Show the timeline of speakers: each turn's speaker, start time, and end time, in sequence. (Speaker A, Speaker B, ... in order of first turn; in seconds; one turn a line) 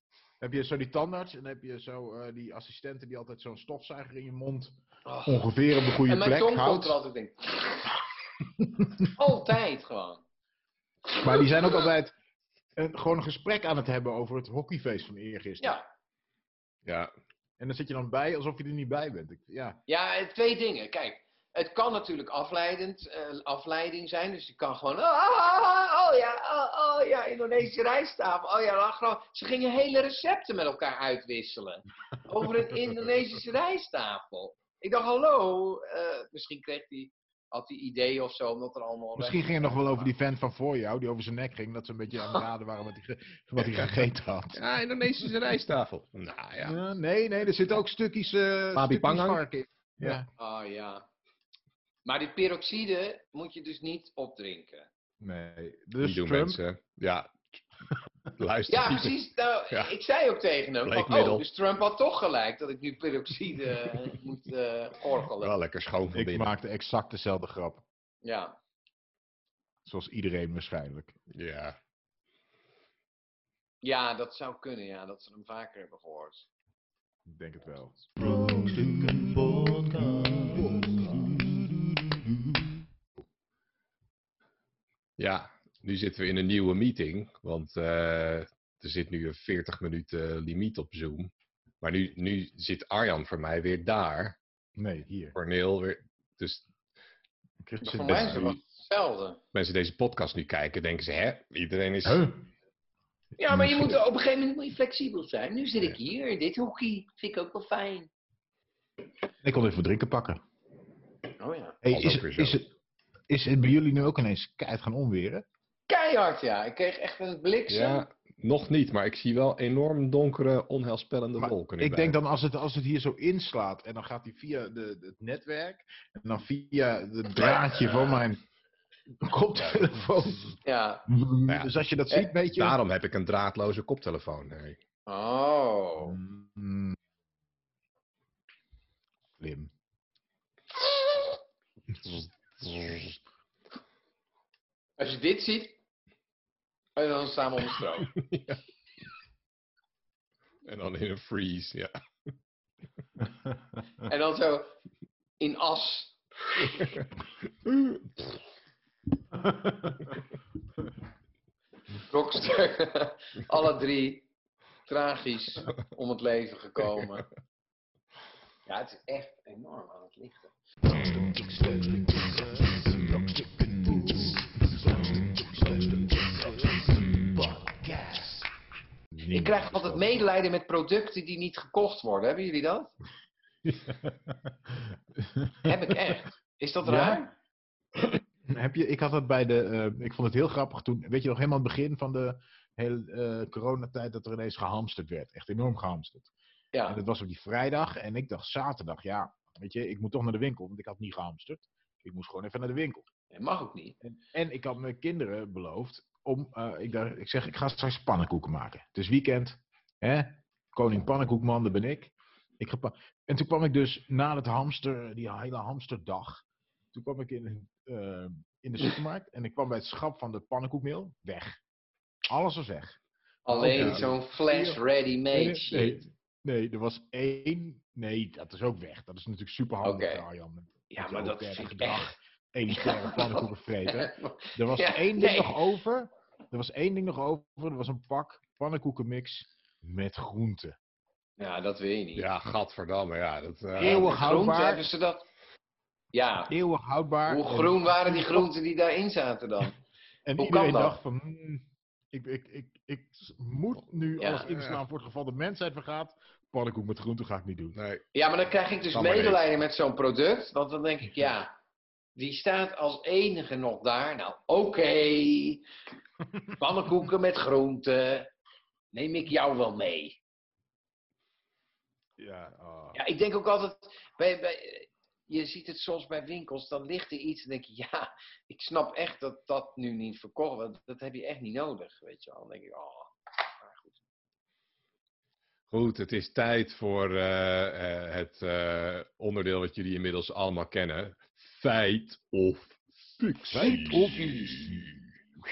Speaker A: 0.4-7.0
Speaker B: 5.0-8.0
Speaker B: 9.0-10.2
Speaker B: 11.1-11.5
Speaker A: 11.2-12.1
Speaker A: 12.8-15.8
Speaker B: 15.6-15.8
Speaker C: 16.8-17.1
Speaker A: 17.6-19.8
Speaker B: 19.9-40.1
Speaker A: 39.1-44.6
Speaker C: 43.6-43.9
Speaker C: 44.5-46.8
Speaker A: 46.6-50.3
Speaker C: 48.7-49.4
Speaker B: 50.4-51.0
Speaker B: 52.0-54.9
Speaker A: 55.2-56.6
Speaker C: 56.0-57.6
Speaker C: 58.3-59.2
Speaker B: 58.7-65.5
Speaker C: 60.8-61.4
Speaker C: 65.4-66.5
Speaker A: 66.1-67.8
Speaker B: 68.2-68.5
Speaker A: 69.8-71.2
Speaker C: 71.3-71.8
Speaker B: 73.8-76.5
Speaker A: 77.2-78.0
Speaker D: 78.2-81.8
Speaker A: 80.5-81.2
Speaker C: 85.2-91.3
Speaker C: 91.8-94.4
Speaker A: 94.8-95.3
Speaker C: 95.3-96.6
Speaker A: 97.6-98.5
Speaker B: 97.8-99.4
Speaker C: 98.1-98.5
Speaker C: 99.5-102.2
Speaker A: 102.0-102.4
Speaker B: 103.4-108.1
Speaker A: 103.5-104.0
Speaker A: 109.4-110.4
Speaker B: 111.4-111.8
Speaker A: 111.8-112.7
Speaker C: 111.9-112.6
Speaker A: 113.3-115.4
Speaker B: 115.9-118.0
Speaker C: 117.7-122.2
Speaker A: 121.4-128.4
Speaker B: 127.4-127.8
Speaker A: 129.1-132.8
Speaker B: 130.6-131.1
Speaker C: 132.5-134.8
Speaker B: 135.1-136.2
Speaker A: 136.0-137.0
Speaker A: 139.4-139.7
Speaker C: 142.0-143.2
Speaker B: 145.0-145.8
Speaker B: 146.9-148.1
Speaker C: 148.1-148.6
Speaker C: 150.6-151.9
Speaker B: 154.0-154.7
Speaker B: 155.4-156.2
Speaker C: 157.7-158.0
Speaker A: 159.4-160.0
Speaker B: 161.9-164.3
Speaker B: 164.9-167.2
Speaker B: 168.7-170.5
Speaker D: 170.8-178.5
Speaker A: 179.1-180.1
Speaker B: 179.3-182.9
Speaker A: 183.6-185.6
Speaker B: 185.6-187.3
Speaker A: 186.8-187.2
Speaker A: 187.9-196.3
Speaker B: 196.7-197.0
Speaker A: 196.9-203.1
Speaker B: 203.3-204.0
Speaker A: 204.0-221.6
Speaker A: 222.3-224.8
Speaker B: 223.4-226.0
Speaker C: 223.7-224.0
Speaker A: 225.3-240.8
Speaker B: 229.8-230.2
Speaker B: 230.9-232.1
Speaker B: 232.7-235.7
Speaker B: 241.4-242.2
Speaker C: 242.1-244.2
Speaker A: 243.8-244.8
Speaker B: 243.8-245.2
Speaker B: 246.1-246.5
Speaker A: 246.5-248.5
Speaker B: 247.3-249.8
Speaker A: 250.2-257.8
Speaker B: 250.4-250.9
Speaker B: 254.2-254.5
Speaker C: 254.5-254.8
Speaker C: 257.7-258.1
Speaker B: 258.1-261.5
Speaker C: 258.9-259.4
Speaker B: 262.1-265.6
Speaker B: 266.6-268.3
Speaker B: 268.9-270.2
Speaker A: 272.2-273.0
Speaker B: 272.9-283.9
Speaker C: 285.7-294.9
Speaker A: 293.5-294.9
Speaker B: 293.9-294.6